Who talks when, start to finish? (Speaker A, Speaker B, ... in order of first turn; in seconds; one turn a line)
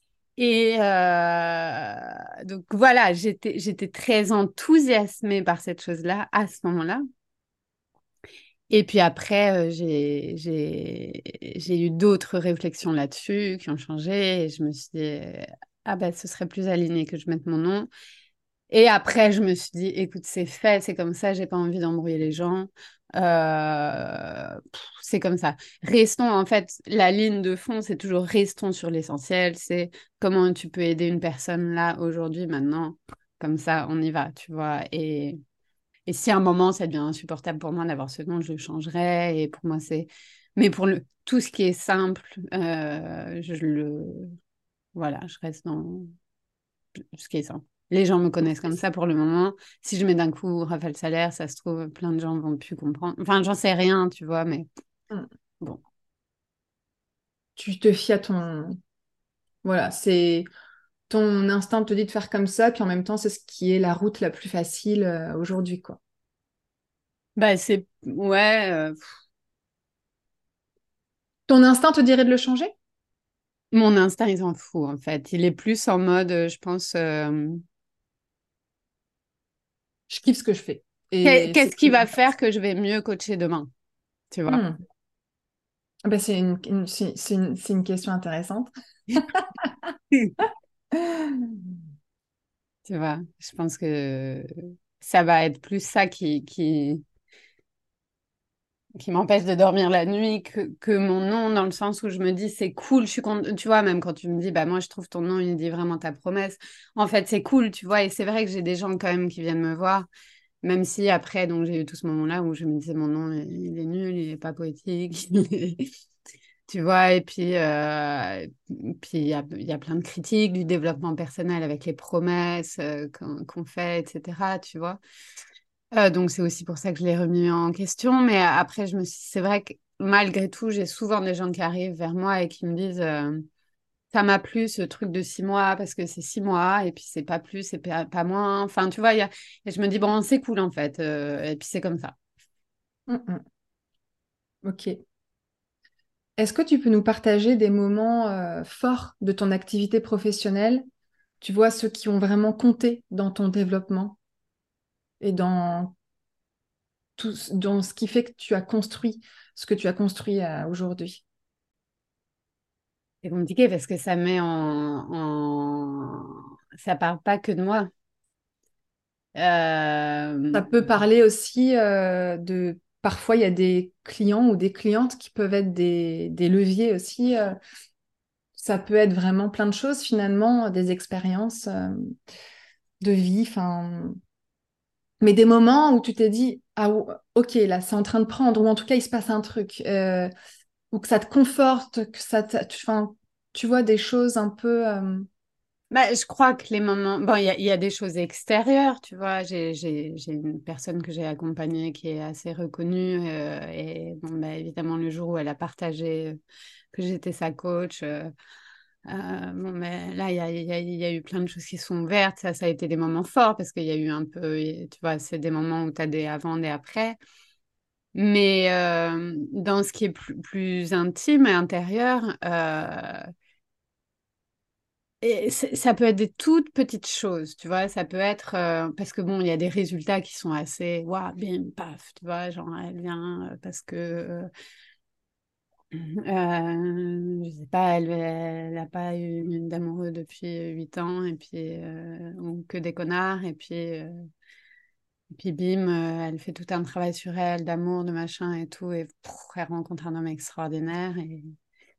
Speaker A: 0.4-7.0
Speaker A: 8.7-17.9
Speaker A: 18.7-35.4
Speaker A: 36.1-44.4
Speaker A: 45.0-46.1
Speaker A: 47.0-54.7
Speaker B: 57.6-58.8
Speaker B: 59.6-60.5
Speaker B: 61.1-66.0
Speaker A: 67.4-69.1
Speaker B: 71.5-72.7
Speaker A: 73.7-77.6
Speaker B: 80.1-82.1
Speaker A: 81.2-83.7
Speaker A: 84.3-84.6
Speaker B: 84.5-84.8
Speaker B: 86.1-89.9
Speaker B: 90.9-91.6
Speaker A: 92.9-94.5
Speaker A: 95.0-97.0
Speaker A: 99.0-110.1
Speaker A: 110.6-115.9
Speaker A: 116.7-125.0
Speaker A: 125.9-133.4
Speaker A: 134.1-142.2
Speaker B: 143.1-143.4
Speaker B: 144.6-145.0
Speaker B: 146.4-150.8
Speaker B: 151.4-154.2
Speaker B: 155.2-155.9
Speaker B: 157.2-161.2
Speaker A: 163.2-167.9
Speaker A: 169.4-170.8
Speaker B: 170.5-177.6
Speaker B: 178.6-182.2
Speaker B: 183.0-184.2
Speaker B: 185.2-190.3
Speaker B: 190.9-195.3
Speaker A: 195.9-206.4
Speaker A: 206.9-208.3
Speaker A: 209.1-217.2
Speaker A: 218.2-223.3
Speaker A: 225.2-234.5
Speaker A: 235.9-244.3
Speaker A: 245.3-251.5